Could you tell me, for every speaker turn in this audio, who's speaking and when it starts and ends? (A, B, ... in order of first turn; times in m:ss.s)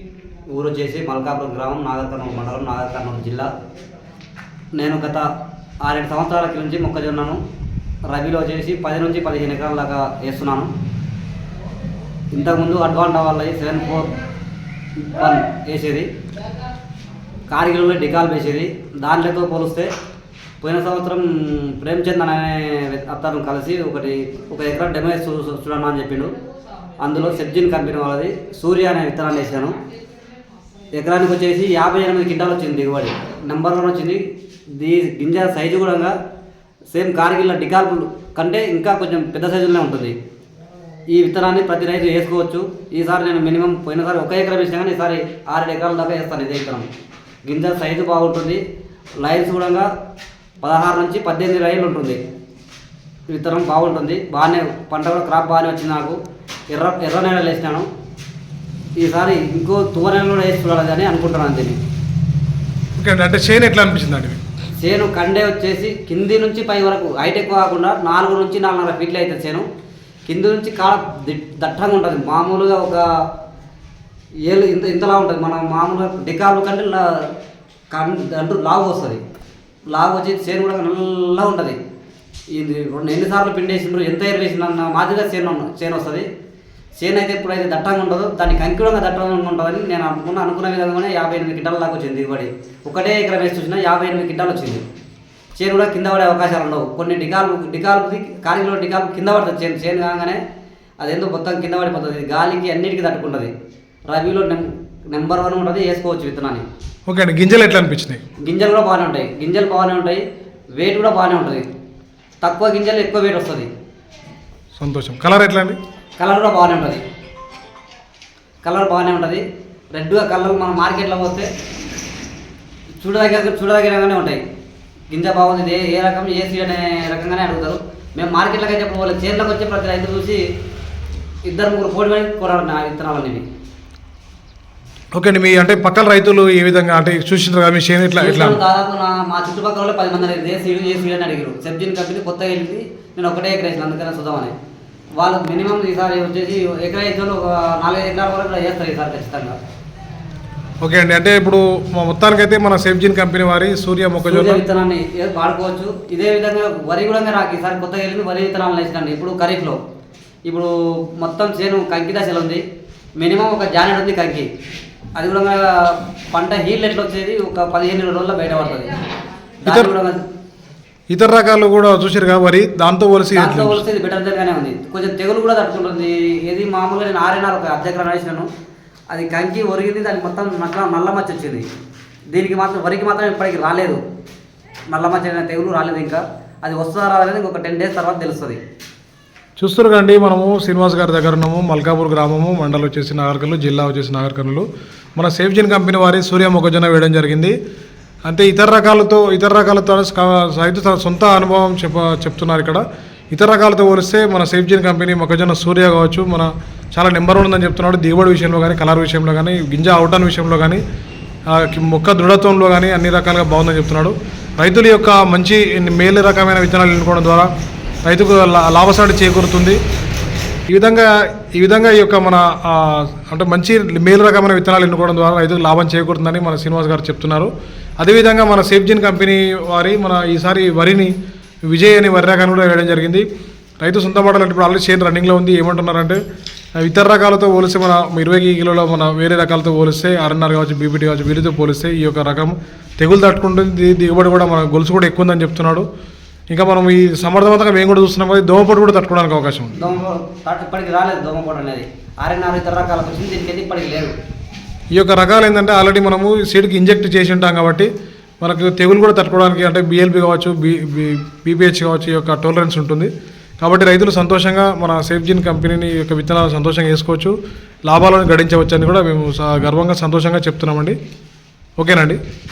0:00.5-0:03.5 A
0:04.8-0:05.3 A
0:05.8-0:07.4 A
0:08.1-0:10.7 A
0:12.3-0:14.2 A
0:15.0-0:16.1 A
0:17.5-0:19.9 A
0:20.6-0:26.3 A
0:27.0-0:29.8 A
0:30.9-0:34.2 A
0:34.7-0:36.1 A
0:36.9-0:40.1 A
0:41.1-0:46.9 A
0:47.5-0:48.6 A
0:49.2-0:49.9 A
0:50.6-0:52.2 A
0:53.3-0:56.2 A
0:56.7-0:57.9 A
0:59.0-1:01.8 A
1:03.0-1:04.4 B
1:04.8-1:09.6 A
1:10.3-1:13.0 A
1:14.5-1:17.3 A
1:17.9-1:19.2 A
1:19.9-1:21.8 A
1:22.5-1:26.3 A
1:27.0-1:34.8 A
1:35.6-1:40.4 A
1:41.0-1:43.5 A
1:44.1-1:46.6 A
1:47.1-1:48.2 B
1:48.4-1:50.2 A
1:50.8-1:51.6 A
1:52.4-1:53.7 A
1:54.8-1:55.8 B
1:56.2-1:57.0 A
1:58.6-2:01.5 A
2:03.0-2:04.4 A
2:05.1-2:10.4 A
2:11.5-2:13.4 A
2:15.1-2:18.6 B
2:18.2-2:24.5 A
2:25.2-2:29.6 A
2:30.8-2:34.6 B
2:34.3-2:39.8 A
2:40.5-2:42.6 A
2:43.2-2:44.5 A
2:45.2-2:49.0 A
2:49.6-2:50.2 A
2:49.6-2:49.9 B
2:51.1-2:53.8 B
2:53.3-2:58.5 A
2:59.1-3:01.6 A
3:02.3-3:04.0 A
3:04.9-3:08.6 A
3:09.6-3:14.6 B
3:15.2-3:17.5 B
3:18.3-3:30.8 B
3:31.5-3:37.5 B
3:38.0-3:39.8 B
3:40.7-3:51.1 B
3:51.7-3:53.2 B
3:53.8-3:56.2 B
3:56.8-4:05.8 B
4:06.5-4:09.7 B
4:09.8-4:14.1 A
4:14.9-4:17.9 B
4:18.4-4:23.1 B
4:23.6-4:27.3 B
4:27.9-4:31.0 B
4:31.8-4:32.2 B